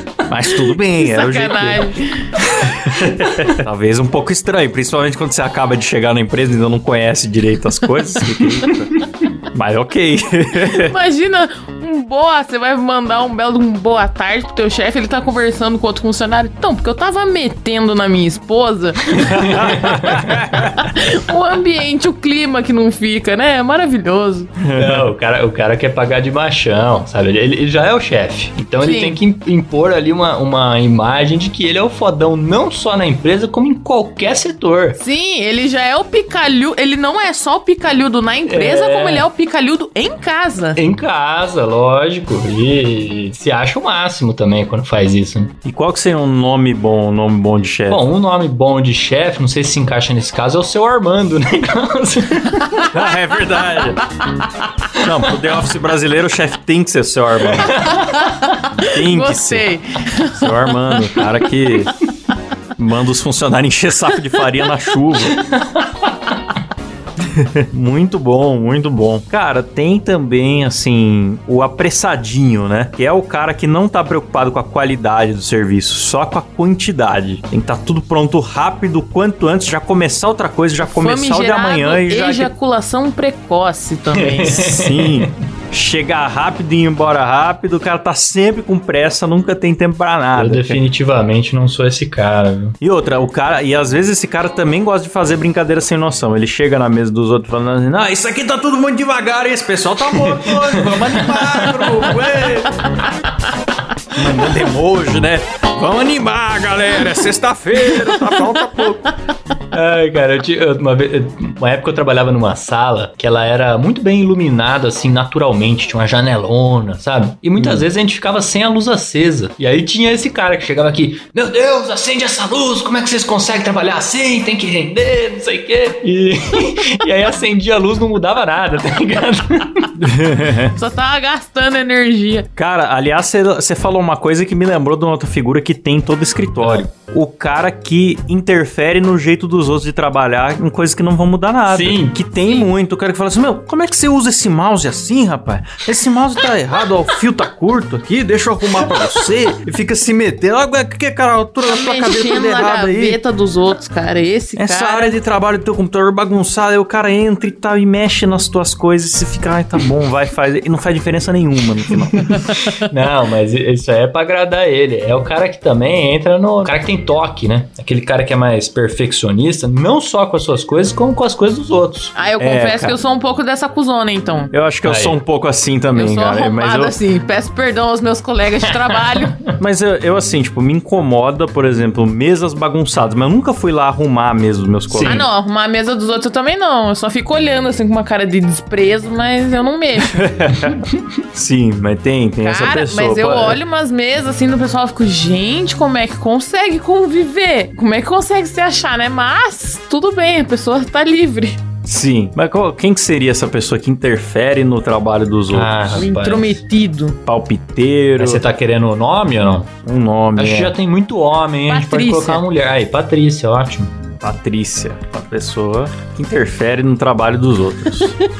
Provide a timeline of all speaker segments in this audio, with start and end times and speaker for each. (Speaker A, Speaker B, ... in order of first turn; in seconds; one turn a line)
Speaker A: 0.2-1.9
Speaker B: 0.8-2.3
Speaker A: 2.5-9.0
Speaker A: 9.5-10.9
Speaker B: 10.7-19.7
Speaker C: 19.1-20.4
Speaker A: 19.3-20.7
Speaker B: 20.6-24.5
Speaker A: 24.6-25.1
Speaker C: 24.8-35.0
Speaker B: 28.8-29.2
Speaker B: 35.0-40.8
Speaker C: 38.5-39.2
Speaker C: 40.8-45.5
Speaker A: 45.6-48.0
Speaker C: 47.9-52.9
Speaker A: 52.8-54.0
Speaker A: 55.0-57.9
Speaker B: 57.8-61.2
Speaker A: 58.8-59.7
Speaker A: 60.3-61.9
Speaker A: 62.8-65.4
Speaker C: 65.4-65.9
Speaker A: 67.2-82.5
Speaker B: 80.8-84.6
Speaker C: 84.1-85.3
Speaker A: 84.4-90.8
Speaker C: 90.3-92.8
Speaker A: 92.8-103.0
Speaker C: 100.2-102.0
Speaker A: 104.1-109.1
Speaker C: 109.7-130.0
Speaker A: 117.6-117.8
Speaker A: 130.0-130.7
Speaker B: 130.7-132.5
Speaker A: 132.6-153.2
Speaker C: 141.7-142.2
Speaker B: 151.7-155.2
Speaker A: 154.6-162.5
Speaker C: 162.2-172.1
Speaker B: 172.2-174.5
Speaker A: 172.4-173.0
Speaker A: 174.5-176.9
Speaker C: 174.8-175.2
Speaker B: 175.9-179.4
Speaker A: 179.6-185.3
Speaker C: 184.9-185.2
Speaker B: 185.0-190.2
Speaker A: 190.1-193.6
Speaker B: 192.4-201.6
Speaker A: 201.8-206.1
Speaker C: 205.5-206.6
Speaker B: 206.0-207.2
Speaker A: 207.2-208.4
Speaker C: 208.2-209.7
Speaker A: 209.8-210.8
Speaker C: 210.4-213.9
Speaker B: 211.7-212.4
Speaker A: 214.2-218.1